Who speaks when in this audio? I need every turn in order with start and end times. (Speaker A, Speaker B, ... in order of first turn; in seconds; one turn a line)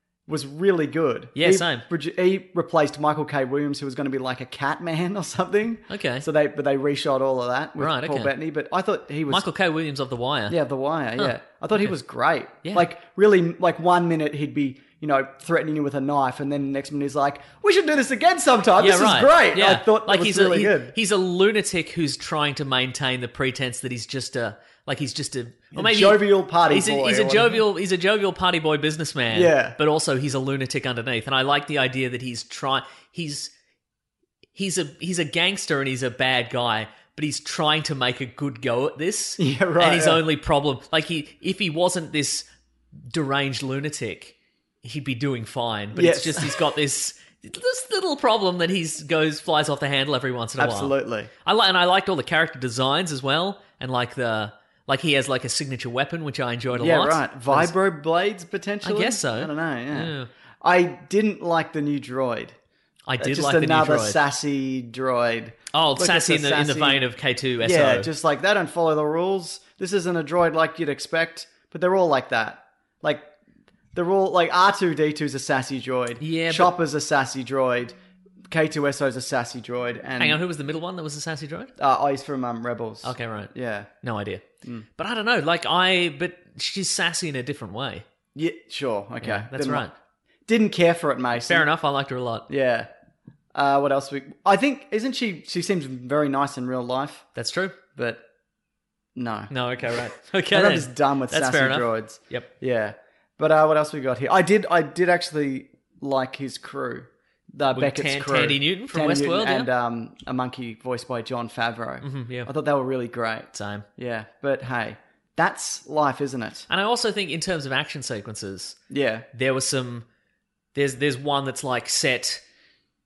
Speaker A: 0.3-9.5
Speaker B: 1.4-1.9
Speaker B: 5.9-6.3
Speaker B: 7.8-8.3
Speaker B: 9.3-10.6
Speaker A: 10.5-20.9
Speaker B: 11.2-11.9
Speaker B: 18.8-33.5
Speaker A: 25.7-27.6
Speaker A: 29.3-29.8
Speaker B: 34.5-42.5
Speaker A: 39.4-40.2
Speaker B: 43.1-57.7
Speaker A: 46.0-46.6
Speaker A: 50.6-51.3
Speaker A: 56.8-62.6
Speaker B: 58.8-60.3
Speaker B: 63.1-64.2
Speaker A: 63.2-67.0
Speaker B: 65.7-68.1
Speaker A: 67.6-73.3
Speaker A: 73.9-78.0
Speaker B: 76.2-76.7
Speaker A: 78.5-80.4
Speaker B: 80.2-81.7
Speaker A: 81.8-83.9
Speaker B: 83.0-84.5
Speaker B: 85.0-88.0
Speaker A: 88.3-89.9
Speaker B: 89.2-89.9
Speaker A: 90.5-91.7
Speaker B: 91.5-92.5
Speaker A: 92.5-92.9
Speaker A: 93.5-97.3
Speaker B: 97.4-97.8
Speaker A: 98.0-98.2
Speaker A: 99.2-99.5
Speaker B: 99.5-102.5
Speaker A: 100.5-116.7
Speaker B: 107.7-109.7
Speaker B: 112.0-112.5
Speaker B: 113.5-113.9
Speaker B: 116.7-118.8
Speaker A: 118.9-119.3
Speaker B: 119.3-120.0
Speaker B: 120.8-122.4